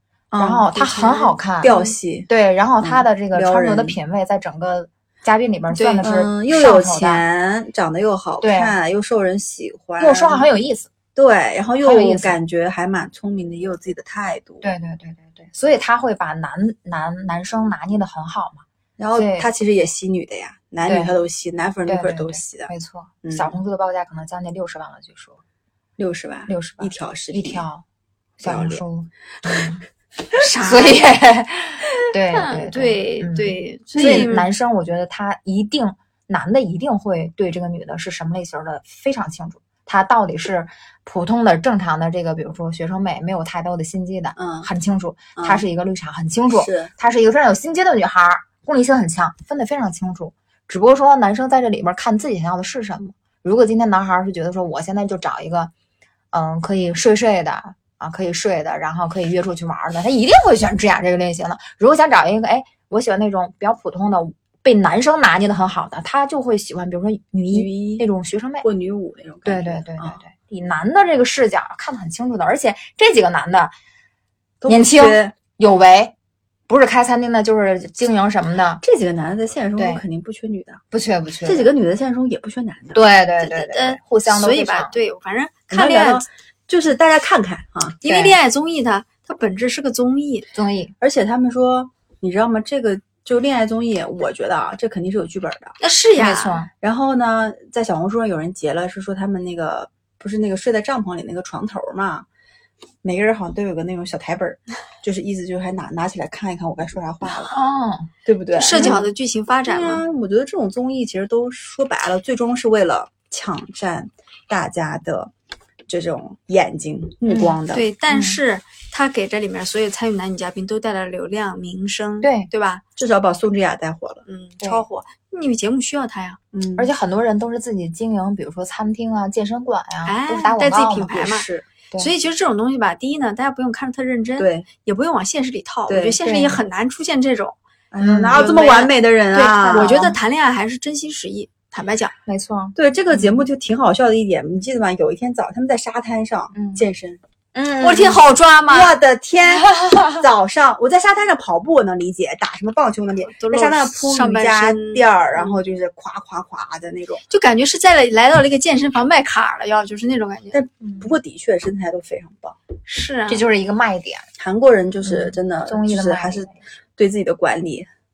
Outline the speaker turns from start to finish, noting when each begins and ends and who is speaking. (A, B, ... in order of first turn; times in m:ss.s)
0:00.3-0:00.7 A
0:00.4-0:01.7 B
0:00.8-0:01.9 C
0:01.6-0:02.3 A
0:02.3-0:07.2 B
0:02.8-0:04.0 A
0:05.7-0:06.1 C
0:06.0-0:10.5 A
0:08.4-0:08.8 B
0:10.0-0:10.9 B
0:11.1-0:14.6 A
0:11.8-0:12.4 B
0:14.6-0:19.5 B
0:19.0-0:22.7 A
0:20.8-0:21.1 B
0:21.8-0:25.4 B
0:23.2-0:23.6 A
0:26.0-0:27.6 A
0:26.5-0:27.8 B
0:28.4-0:29.8 B
0:28.4-0:28.8 A
0:30.3-0:31.1 C
0:30.6-0:55.7 B
0:32.3-0:34.5 C
0:33.9-0:34.3 A
0:44.4-0:44.7 A
0:45.4-0:45.6 A
0:46.6-0:46.9 A
0:56.3-1:08.7 B
1:07.5-1:08.0 A
1:08.6-1:10.2 A
1:09.4-1:13.7 B
1:14.6-1:15.3 A
1:14.7-1:16.1 B
1:16.7-1:18.8 B
1:18.8-1:20.8 A
1:19.8-1:20.0 B
1:20.9-1:21.7 B
1:21.4-1:23.0 A
1:22.9-1:24.9 B
1:23.4-1:26.2 C
1:25.7-1:28.0 A
1:28.0-1:30.5 C
1:28.0-1:28.3 B
1:30.5-1:30.9 B
1:31.0-1:35.8 A
1:35.8-1:36.6 C
1:36.2-1:36.7 B
1:36.8-1:42.2 A
1:43.0-1:47.5 A
1:47.5-1:48.1 B
1:48.2-1:49.1 A
1:48.5-1:50.0 C
1:48.7-1:49.0 B
1:49.6-1:55.3 A
1:55.9-1:57.8 A
1:57.3-1:58.4 B
1:57.7-2:02.8 C
2:02.2-2:02.5 B
2:03.0-2:04.2 A
2:04.3-2:06.4 C
2:06.5-2:06.9 A
2:06.8-2:11.2 B
2:10.0-2:11.5 C
2:11.1-2:11.6 A
2:12.0-2:17.5 C
2:14.4-2:14.7 A
2:15.9-2:16.2 A
2:16.2-2:16.6 B
2:17.9-2:20.0 A
2:18.0-2:18.4 B
2:18.3-2:22.1 C
2:19.7-2:20.2 B
2:22.2-2:23.4 B
2:22.7-2:27.2 A
2:26.5-2:26.8 B
2:27.5-2:28.2 B
2:27.8-2:29.0 C
2:28.7-2:37.2 A
2:29.6-2:30.2 B
2:33.3-2:35.6 C
2:37.3-2:40.6 C
2:40.5-2:42.6 A
2:40.8-2:41.1 B
2:42.9-2:43.4 C
2:43.3-2:44.2 B
2:44.4-2:47.9 A
2:45.0-2:46.6 B